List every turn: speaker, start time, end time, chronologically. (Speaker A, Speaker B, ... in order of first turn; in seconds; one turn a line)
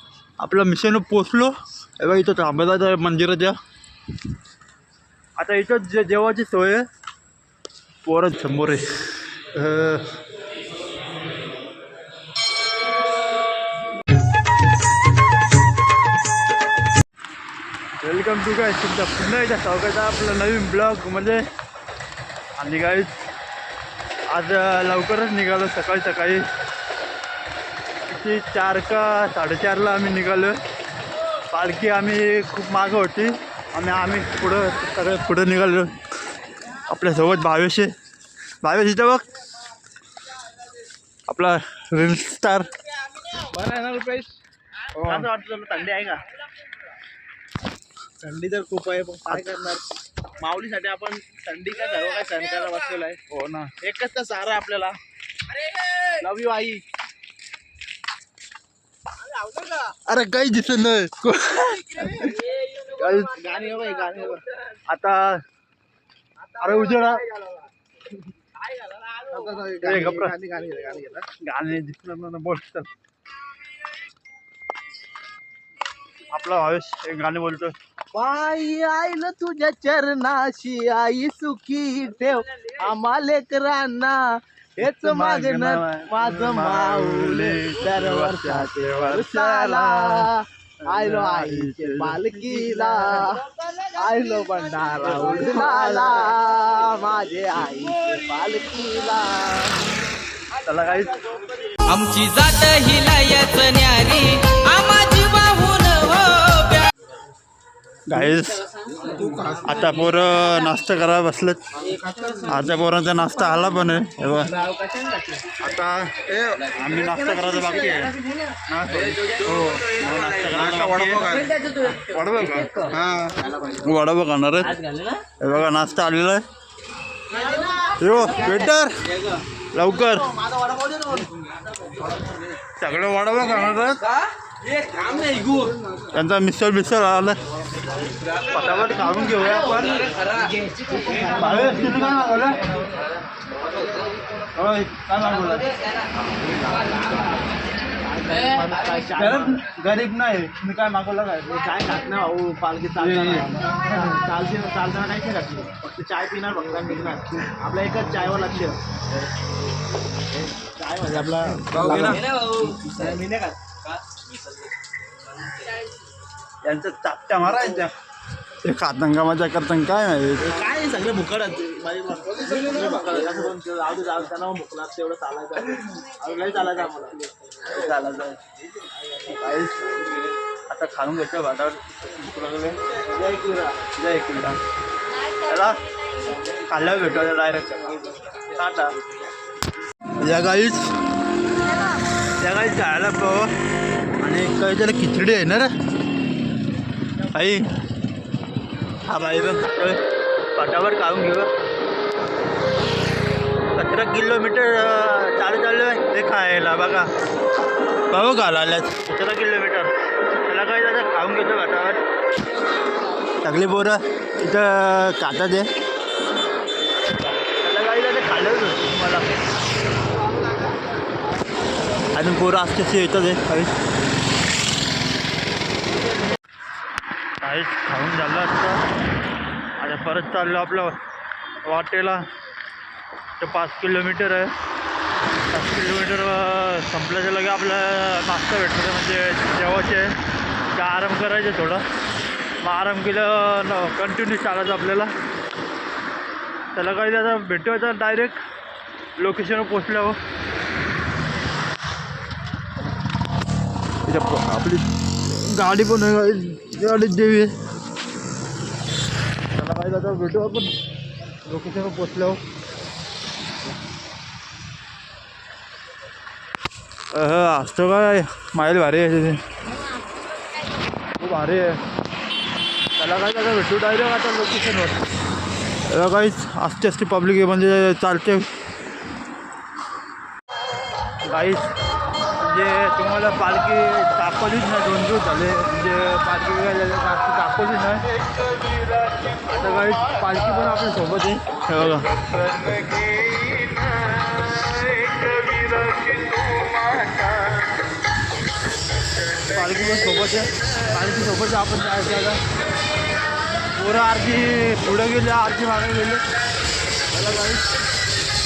Speaker A: 0.4-3.6
Speaker A: 5.4-6.8
Speaker A: 8.1-10.2
Speaker A: 18.0-21.5
Speaker A: 22.6-23.2
Speaker A: 24.3-26.4
Speaker A: 28.1-30.6
Speaker A: 31.5-35.9
Speaker A: 36.9-37.9
Speaker A: 38.6-39.3
Speaker A: 41.3-42.7
Speaker B: 43.4-44.3
Speaker A: 45.0-45.3
Speaker B: 45.0-46.2
Speaker B: 48.2-49.8
Speaker A: 49.3-49.6
Speaker B: 50.4-53.2
Speaker A: 53.3-53.7
Speaker B: 53.8-55.0
Speaker B: 56.0-56.8
Speaker A: 60.1-63.4
Speaker B: 63.3-64.4
Speaker A: 64.9-65.4
Speaker A: 66.6-67.3
Speaker B: 69.1-71.3
Speaker A: 69.8-70.3
Speaker A: 71.4-72.9
Speaker A: 76.3-77.8
Speaker B: 78.1-84.2
Speaker B: 84.8-99.8
Speaker A: 84.8-90.3
Speaker A: 90.8-93.3
Speaker A: 95.1-96.2
Speaker A: 100.7-101.2
Speaker C: 101.9-106.9
Speaker A: 108.1-108.6
Speaker B: 109.0-109.6
Speaker A: 109.6-111.7
Speaker B: 111.9-112.4
Speaker A: 112.4-114.6
Speaker B: 114.5-115.5
Speaker A: 115.6-123.1
Speaker A: 123.7-124.8
Speaker B: 124.8-125.2
Speaker A: 125.4-126.4
Speaker B: 127.3-128.6
Speaker A: 128.0-129.0
Speaker A: 129.7-130.3
Speaker B: 130.3-131.3
Speaker A: 132.8-134.1
Speaker B: 135.0-135.8
Speaker A: 136.1-137.4
Speaker A: 138.5-140.1
Speaker B: 140.3-141.7
Speaker A: 141.2-142.8
Speaker A: 144.5-145.7
Speaker B: 146.4-147.3
Speaker B: 148.0-149.6
Speaker A: 149.1-151.6
Speaker B: 151.4-158.8
Speaker A: 153.0-153.5
Speaker B: 160.8-163.6
Speaker A: 161.8-162.2
Speaker C: 162.3-162.9
Speaker A: 166.6-167.9
Speaker A: 168.6-170.6
Speaker B: 170.4-177.3
Speaker A: 177.6-178.4
Speaker B: 179.2-180.2
Speaker A: 180.7-182.8
Speaker B: 183.0-183.8
Speaker A: 183.9-184.6
Speaker A: 185.4-185.8
Speaker A: 186.7-188.9
Speaker A: 190.2-190.9
Speaker A: 192.4-193.5
Speaker A: 194.2-195.7
Speaker A: 197.2-197.7
Speaker A: 199.1-200.0
Speaker A: 200.6-201.5
Speaker A: 203.8-207.1
Speaker A: 208.1-209.9
Speaker A: 210.4-212.0
Speaker A: 213.4-215.7
Speaker A: 217.6-219.3
Speaker A: 222.1-223.7
Speaker A: 227.4-228.8
Speaker A: 229.8-231.0
Speaker A: 231.7-232.3
Speaker A: 233.4-234.5
Speaker A: 235.5-240.2
Speaker A: 240.7-241.8
Speaker A: 242.6-245.1
Speaker A: 246.7-248.4
Speaker A: 249.2-250.2
Speaker A: 254.1-257.5
Speaker A: 259.6-260.7
Speaker A: 261.4-262.4
Speaker A: 267.1-269.4
Speaker A: 271.2-271.8
Speaker A: 273.0-275.0
Speaker A: 275.9-278.5
Speaker A: 281.2-281.7
Speaker A: 282.4-288.0
Speaker A: 289.3-292.1
Speaker A: 294.4-297.0
Speaker A: 299.5-302.4
Speaker A: 303.7-306.2
Speaker A: 307.1-307.6